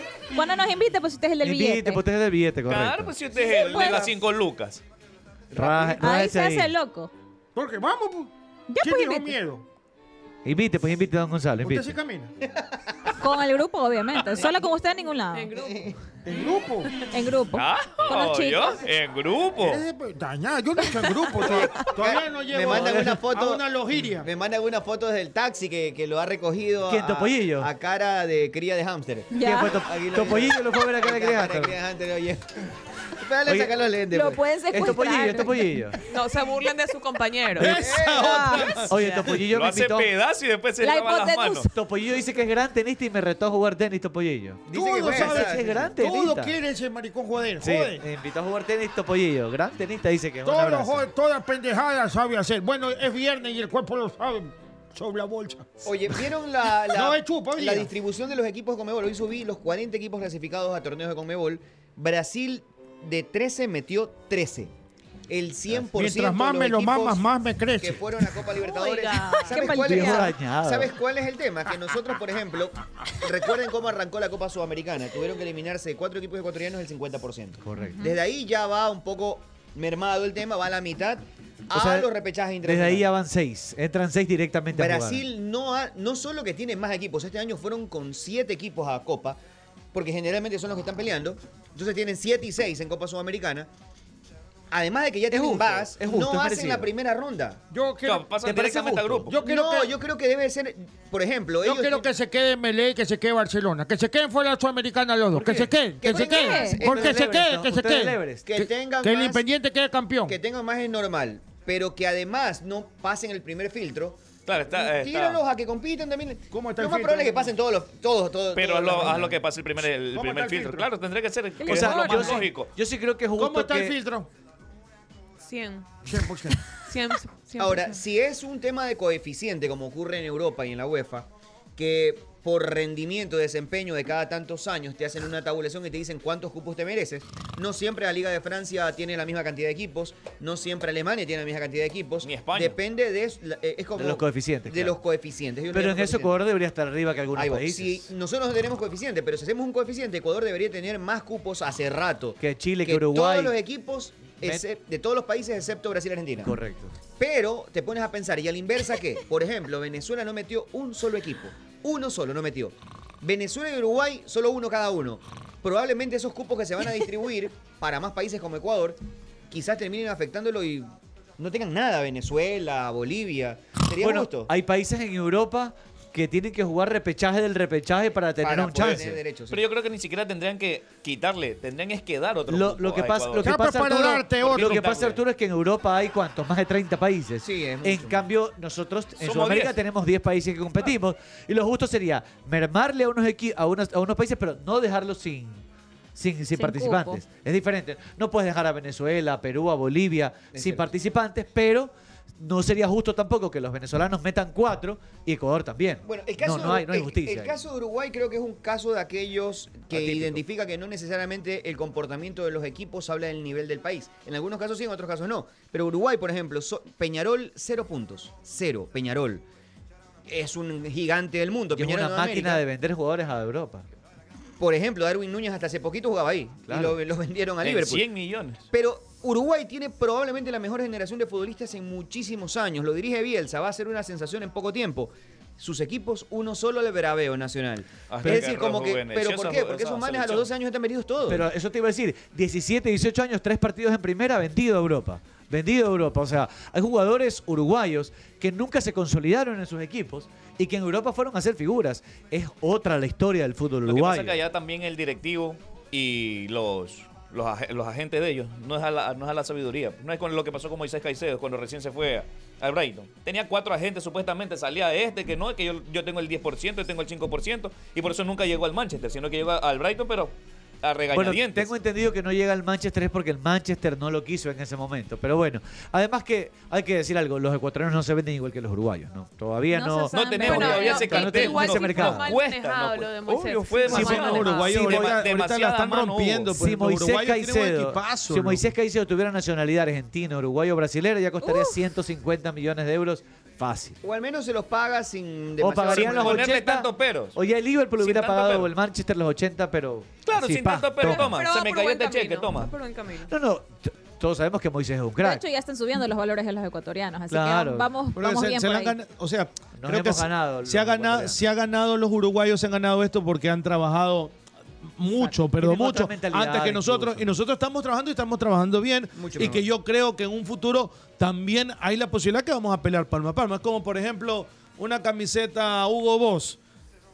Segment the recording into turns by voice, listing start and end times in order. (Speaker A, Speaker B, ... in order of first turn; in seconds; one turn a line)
Speaker A: 0.3-2.0
Speaker B: 1.4-3.1
Speaker C: 2.7-4.8
Speaker A: 3.3-4.1
Speaker B: 5.5-6.7
Speaker D: 5.6-5.9
Speaker A: 6.0-7.1
Speaker E: 7.5-9.6
Speaker A: 8.7-9.4
Speaker B: 10.4-11.9
Speaker E: 11.6-12.3
Speaker A: 13.2-15.6
Speaker F: 15.3-15.8
Speaker G: 15.6-15.9
Speaker E: 16.2-16.9
Speaker A: 17.0-18.8
Speaker C: 17.5-19.8
Speaker E: 19.6-24.2
Speaker G: 21.4-32.6
Speaker D: 22.6-23.1
Speaker B: 22.6-23.2
Speaker B: 26.9-27.7
Speaker A: 29.3-29.8
Speaker B: 29.3-31.8
Speaker G: 33.1-34.5
Speaker B: 33.5-33.7
Speaker A: 34.1-35.8
Speaker B: 34.7-36.0
Speaker F: 36.1-38.0
Speaker D: 37.6-38.9
Speaker G: 37.6-38.7
Speaker A: 38.2-38.9
Speaker B: 38.8-40.1
Speaker C: 39.3-41.7
Speaker A: 40.8-41.7
Speaker B: 41.7-46.5
Speaker G: 44.7-45.9
Speaker E: 44.7-48.0
Speaker D: 44.9-45.5
Speaker B: 47.6-51.1
Speaker E: 50.4-55.8
Speaker G: 55.8-64.7
Speaker E: 56.9-57.8
Speaker G: 65.3-67.2
Speaker E: 66.0-68.0
Speaker G: 67.8-83.1
Speaker A: 68.6-70.3
Speaker B: 69.6-70.9
Speaker B: 77.6-78.0
Speaker B: 81.7-82.1
Speaker B: 82.6-85.3
Speaker G: 84.7-89.4
Speaker G: 89.9-93.7
Speaker G: 94.7-97.6
Speaker B: 95.3-96.9
Speaker E: 97.7-98.3
Speaker C: 98.0-99.4
Speaker B: 98.5-99.3
Speaker E: 99.3-99.9
Speaker G: 99.4-102.1
Speaker E: 101.6-108.2
Speaker B: 105.3-108.7
Speaker G: 106.0-107.2
Speaker A: 106.1-106.8
Speaker G: 108.5-109.4
Speaker E: 109.0-110.3
Speaker G: 110.2-119.4
Speaker C: 114.5-115.4
Speaker E: 116.5-117.3
Speaker C: 118.5-122.7
Speaker E: 120.1-120.8
Speaker A: 121.6-122.4
Speaker B: 121.6-124.0
Speaker E: 123.4-124.3
Speaker F: 125.4-126.1
Speaker E: 126.1-126.6
Speaker F: 126.8-128.0
Speaker G: 127.6-146.4
Speaker C: 142.2-142.8
Speaker B: 144.0-145.0
Speaker B: 145.7-148.1
Speaker G: 147.3-156.5
Speaker B: 152.4-153.5
Speaker B: 156.4-156.9
Speaker G: 157.2-174.5
Speaker B: 174.0-179.2
Speaker G: 178.4-179.6
Speaker C: 179.5-183.6
Speaker B: 182.5-195.6
Speaker E: 183.4-184.7
Speaker C: 184.3-185.2
Speaker G: 187.4-188.3
Speaker C: 189.2-189.8
Speaker B: 196.2-207.6
Speaker A: 196.5-197.2
Speaker G: 200.5-200.9
Speaker G: 206.0-219.4
Speaker B: 209.9-210.4
Speaker G: 220.3-222.6
Speaker B: 221.7-223.8
Speaker G: 224.6-228.1
Speaker B: 226.7-226.9
Speaker C: 227.6-228.6
Speaker G: 228.7-241.4
Speaker C: 238.1-240.5
Speaker B: 241.3-254.4
Speaker C: 253.8-271.7
Speaker B: 271.1-282.3
Speaker A: 279.7-281.5
Speaker C: 280.1-286.5
Speaker F: 280.4-285.0
Speaker D: 283.8-288.7
Speaker B: 286.6-294.0
Speaker A: 291.4-291.8
Speaker G: 294.0-296.5
Speaker B: 295.6-301.3
Speaker C: 295.9-297.4
Speaker C: 298.0-298.7
Speaker C: 300.2-302.7
Speaker F: 301.1-303.3
Speaker B: 303.3-305.4
Speaker A: 305.2-309.0
Speaker B: 307.3-307.9
Speaker D: 308.1-314.4
Speaker B: 309.8-311.4
Speaker D: 314.9-326.6
Speaker B: 315.1-317.3
Speaker G: 319.1-319.7